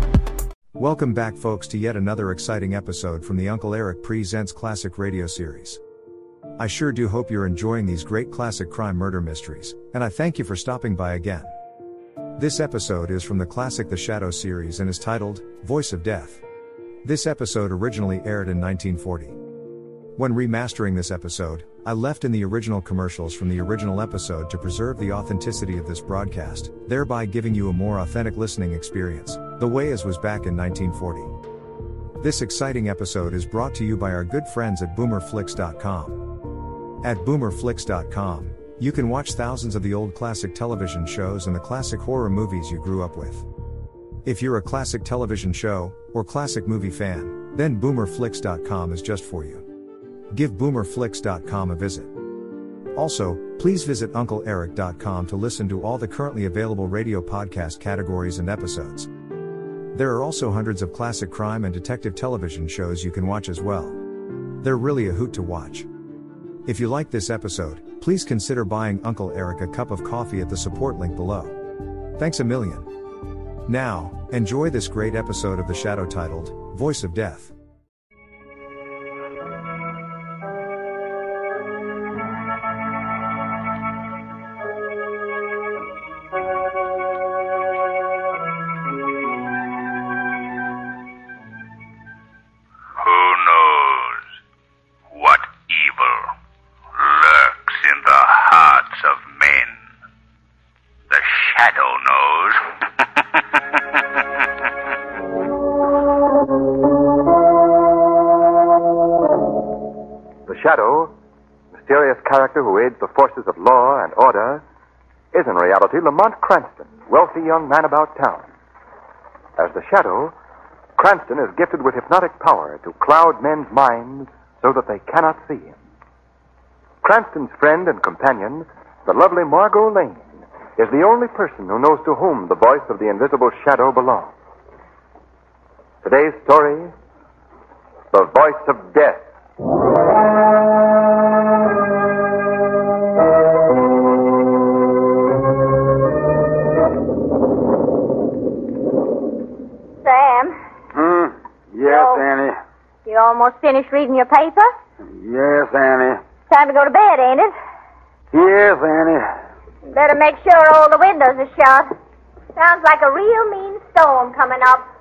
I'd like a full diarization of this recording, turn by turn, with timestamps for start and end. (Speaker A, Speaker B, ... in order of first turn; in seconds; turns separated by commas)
Speaker A: 0.8-5.8, Speaker A: 6.6-11.5, Speaker A: 12.4-16.4, Speaker A: 17.0-19.4, Speaker A: 20.2-31.3, Speaker A: 32.2-36.2, Speaker A: 37.0-43.5, Speaker A: 44.2-49.6, Speaker A: 50.3-52.1, Speaker A: 53.0-59.1, Speaker A: 59.9-64.0, Speaker A: 64.6-65.9, Speaker A: 66.7-71.6, Speaker A: 72.2-72.9, Speaker A: 73.7-77.5, Speaker B: 93.0-94.2, Speaker B: 95.1-96.3, Speaker B: 97.0-99.8, Speaker B: 101.1-102.6, Speaker C: 110.5-111.0, Speaker C: 111.9-114.6, Speaker C: 115.3-118.4, Speaker C: 119.6-120.3, Speaker C: 121.0-125.7, Speaker C: 127.0-130.2, Speaker C: 130.8-134.3, Speaker C: 136.0-136.9, Speaker C: 138.1-139.2, Speaker D: 150.0-150.6, Speaker E: 150.9-152.6, Speaker D: 151.8-152.2, Speaker D: 153.1-154.7, Speaker E: 155.1-156.2, Speaker D: 156.5-157.5, Speaker E: 158.3-159.3, Speaker D: 159.9-161.9, Speaker D: 162.6-164.9